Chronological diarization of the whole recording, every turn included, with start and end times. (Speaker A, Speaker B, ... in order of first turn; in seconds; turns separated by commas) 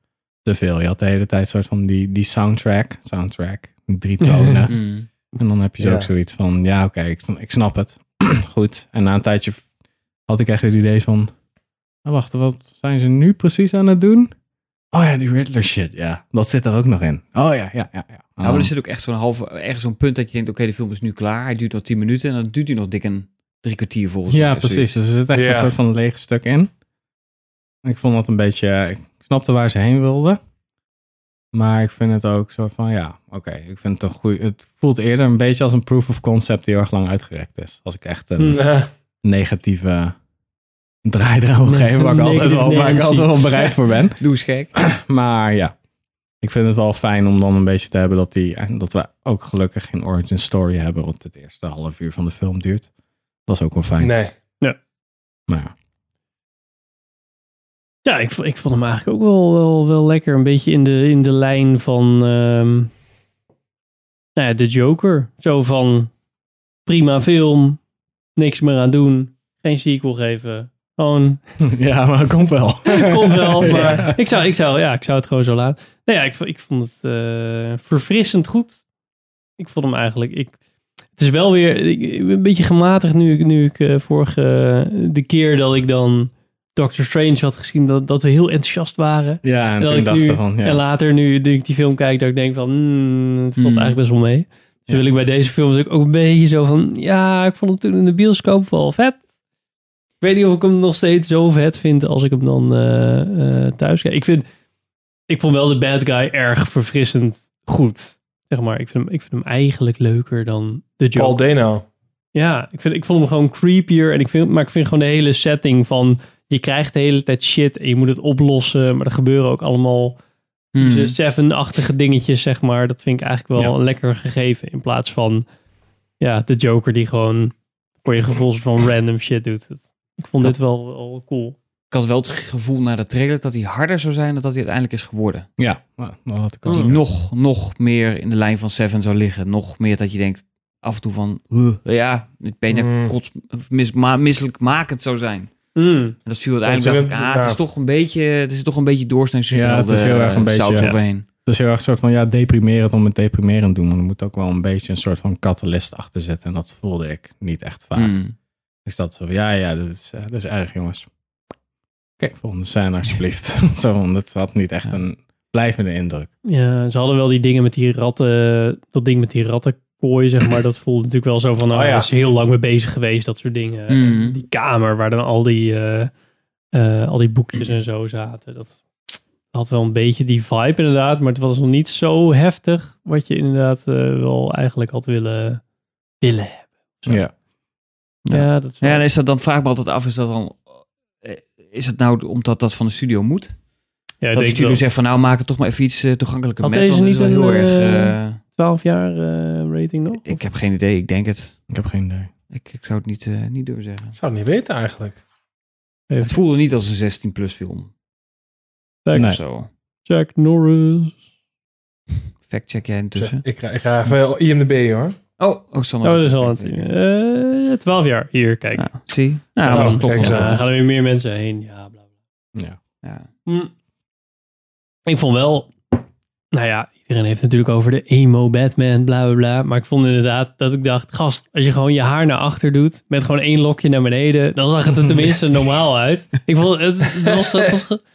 Speaker A: 0.5-9.7, Speaker B: 4.3-4.6, Speaker C: 4.7-5.1, Speaker D: 5.8-6.1, Speaker A: 10.3-11.3, Speaker A: 12.1-14.3, Speaker A: 14.9-18.7, Speaker C: 18.4-24.9, Speaker A: 24.3-26.7, Speaker D: 25.3-25.7, Speaker A: 27.8-30.4, Speaker A: 31.5-38.7, Speaker D: 38.5-38.9, Speaker A: 39.2-40.1, Speaker A: 41.0-44.2, Speaker B: 41.7-43.7, Speaker C: 44.2-44.7, Speaker A: 44.8-45.7, Speaker A: 46.4-52.9, Speaker A: 53.5-54.2, Speaker D: 54.0-54.3, Speaker A: 55.5-55.7, Speaker B: 58.0-62.9, Speaker B: 64.4-66.1, Speaker B: 66.9-67.8, Speaker B: 68.4-71.4, Speaker A: 71.6-74.2, Speaker B: 72.9-78.8, Speaker D: 73.7-74.1, Speaker B: 79.6-80.5, Speaker B: 81.2-99.2, Speaker A: 89.4-90.8, Speaker C: 93.6-94.0, Speaker B: 100.2-104.5, Speaker B: 105.3-111.4, Speaker D: 111.2-111.8, Speaker B: 112.3-120.2, Speaker C: 120.8-121.2, Speaker B: 120.8-125.5, Speaker B: 126.2-131.6, Speaker C: 131.9-135.5, Speaker A: 135.6-137.1, Speaker B: 136.7-136.9, Speaker C: 136.7-145.5, Speaker D: 142.7-143.1, Speaker B: 145.8-146.2, Speaker C: 146.2-151.2, Speaker D: 146.7-147.6, Speaker A: 149.5-158.2, Speaker C: 158.0-158.3, Speaker A: 158.9-161.1, Speaker A: 162.2-166.3, Speaker B: 166.5-176.1, Speaker D: 171.7-172.1, Speaker C: 173.9-174.4, Speaker B: 176.7-178.8, Speaker B: 179.5-185.6, Speaker B: 186.2-187.2, Speaker A: 187.1-187.3, Speaker C: 188.2-190.7, Speaker B: 188.3-189.0, Speaker C: 191.2-193.5, Speaker B: 194.2-194.8, Speaker C: 194.3-198.4, Speaker B: 196.6-200.4, Speaker C: 200.2-201.6, Speaker A: 201.7-202.3, Speaker C: 202.5-204.2, Speaker D: 204.2-205.2, Speaker C: 206.2-207.9, Speaker B: 209.1-209.4, Speaker A: 209.1-209.4, Speaker C: 209.2-209.7, Speaker B: 210.1-211.2, Speaker C: 212.5-213.4, Speaker D: 213.2-215.2, Speaker C: 215.4-216.9, Speaker B: 216.0-218.9, Speaker C: 218.8-220.6, Speaker B: 219.6-222.0, Speaker D: 219.7-220.6, Speaker B: 225.1-225.7, Speaker B: 226.5-238.0